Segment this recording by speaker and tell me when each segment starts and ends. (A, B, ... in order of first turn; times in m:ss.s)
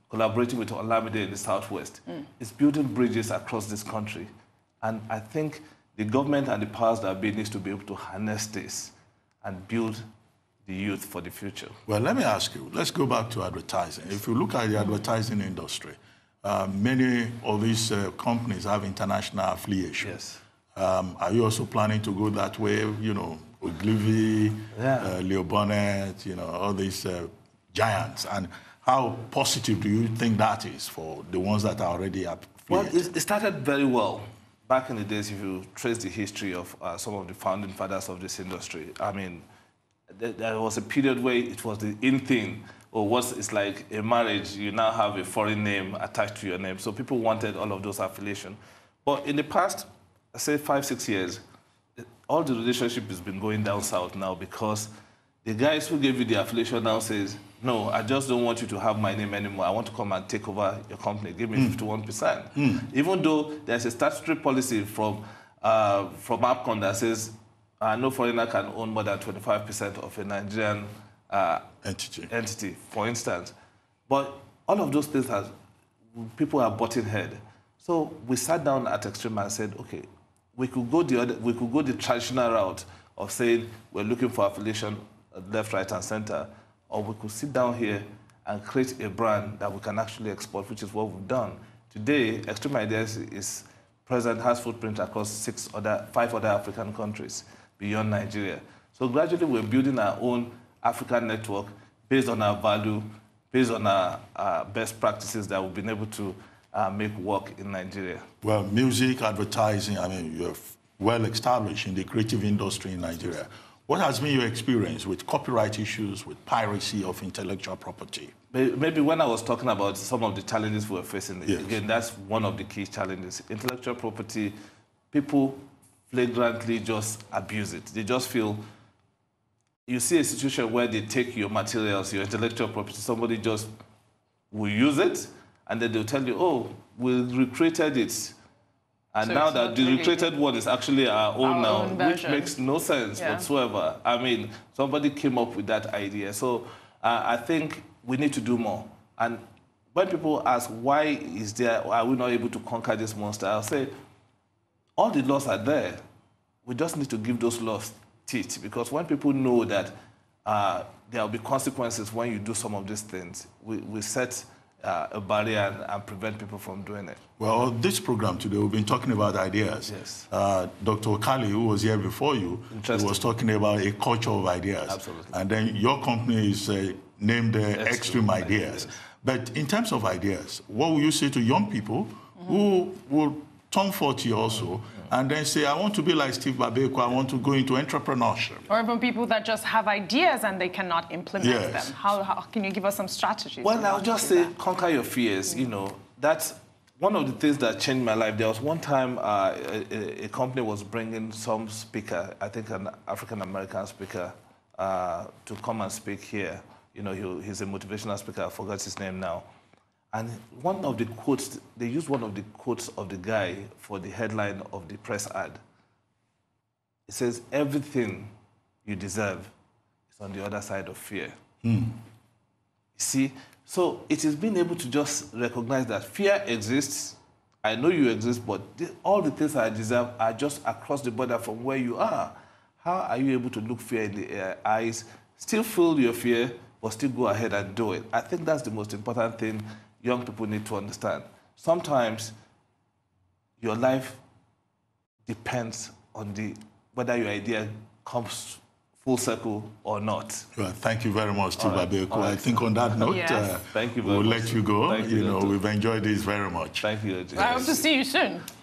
0:00.1-0:04.3 A
0:04.8-0:10.0 A
0:10.6-0:11.8 A
0:11.9-0:20.2 B
0:20.0-0:20.4 A
0:20.7-0:33.1 B
0:24.7-0:25.1 A
0:32.7-0:39.4 A
0:40.1-0:51.4 A
0:52.3-0:54.9 A
0:55.4-1:11.7 A
1:01.5-1:01.8 B
1:02.5-1:02.9 B
1:11.8-1:12.3 B
1:12.3-1:13.5 A
1:14.1-1:15.5 A
1:16.1-1:48.2 A
1:48.4-1:58.3 B
1:58.5-2:04.5 A
2:01.4-2:01.7 B
2:05.1-2:08.6 A
2:09.9-2:13.7 A
2:14.5-2:18.4 A
2:19.1-2:29.4 A
2:19.2-2:20.4 C
2:21.4-2:22.6 C
2:23.2-2:23.5 C
2:29.9-2:33.9 A
2:35.0-2:36.0 A
2:36.6-2:39.9 A
2:40.4-2:47.2 A
2:47.4-3:08.7 B
2:49.9-2:50.3 A
2:52.7-2:53.4 A
2:54.9-2:55.4 A
2:57.7-2:59.0 A
3:08.7-3:14.5 C
3:11.4-3:12.0 B
3:13.6-3:29.4 A
3:30.1-3:35.6 A
3:37.1-3:38.3 A
3:38.8-3:39.5 A
3:40.1-3:41.4 A
3:41.6-3:42.0 B
3:43.0-4:02.3 A
4:03.6-4:04.2 A
4:05.2-4:10.5 A
4:10.5-4:17.7 B
4:11.6-4:12.7 A
4:13.0-4:13.6 C
4:13.7-4:15.6 A
4:16.8-4:17.8 A
4:17.4-4:18.4 C